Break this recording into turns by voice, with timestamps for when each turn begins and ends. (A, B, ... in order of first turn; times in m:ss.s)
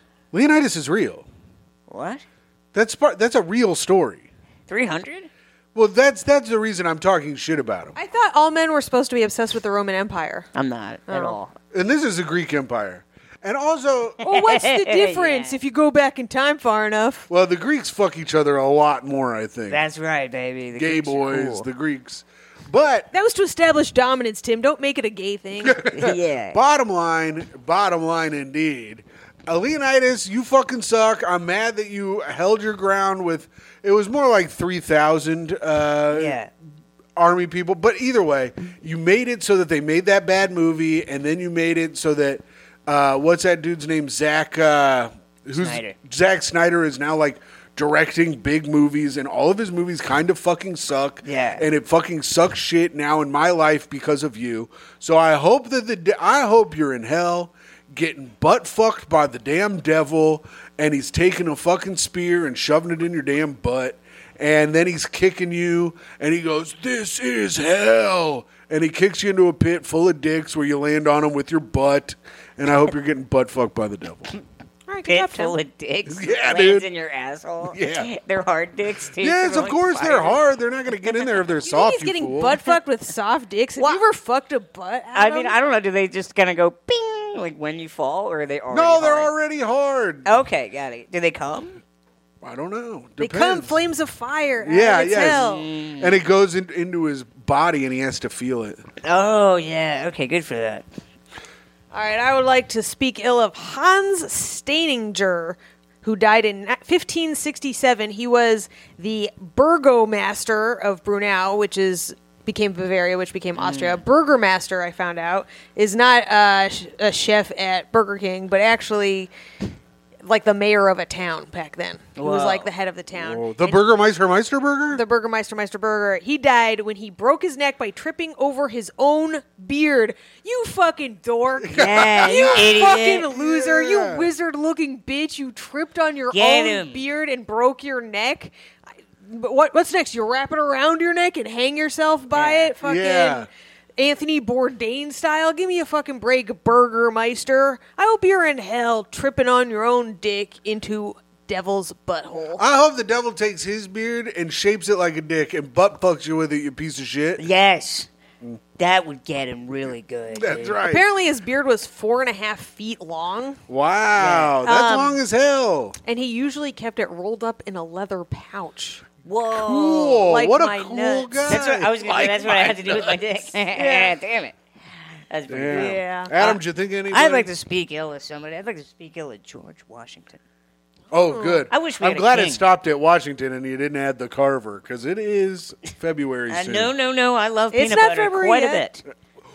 0:00.3-0:01.2 A
0:01.9-0:02.2 B
0:02.7-0:04.3 A
0:04.7-0:05.3 B
0:05.7-0:07.9 A
0:07.9-0:10.5 C
0:10.5-0:11.5 B
0:11.1-0:11.4 C
0:11.7-0:14.2 A
0:14.2-0:17.3 C
0:14.2-0:15.6 B
0:17.3-0:19.8 A
0:19.7-0:21.7 B
0:20.8-0:23.1 A
0:23.1-0:25.8 C
0:25.6-0:36.4 A
0:25.9-0:26.6 B
0:36.1-0:36.5 B
0:37.2-1:14.3 A
0:45.5-0:45.9 B
0:51.2-0:51.6 B
1:14.9-1:15.6 C
1:15.0-1:20.4 B
1:16.1-1:16.9 A
1:17.6-1:18.1 A
1:19.2-1:22.6 A
1:21.6-1:25.6 C
1:25.1-1:29.3 B
1:28.7-1:30.2 A
1:30.2-1:31.8 B
1:32.4-1:33.8 A
1:33.2-1:35.7 C
1:34.6-1:38.8 A
1:35.4-1:36.2 B
1:39.0-1:40.8 B
1:41.9-1:59.3 C
1:53.6-1:54.0 B
2:00.2-2:03.8 C
2:02.2-2:02.7 B
2:03.1-2:05.0 A
2:04.9-2:18.5 C
2:11.6-2:14.3 A
2:11.7-2:13.3 B
2:16.3-2:17.0 B
2:19.2-2:32.6 C
2:22.3-2:22.7 B
2:22.8-2:23.5 A
2:32.6-2:37.4 A
2:37.4-2:38.1 B
2:38.8-2:40.8 B
2:40.3-2:41.1 A
2:40.8-2:43.6 C
2:43.7-2:45.9 A
2:44.2-2:45.2 B
2:46.0-2:49.0 C
2:49.2-2:50.3 B
2:49.5-2:53.2 A
2:50.2-2:51.6 C
2:51.4-2:54.6 B
2:53.8-2:54.1 C
2:55.3-2:56.6 B
2:55.5-2:57.5 A
2:55.7-2:56.3 C
2:57.1-3:00.4 B
3:01.1-3:06.9 A
3:01.3-3:01.6 C
3:01.7-3:02.6 B
3:06.5-3:09.0 B
3:07.7-3:08.8 C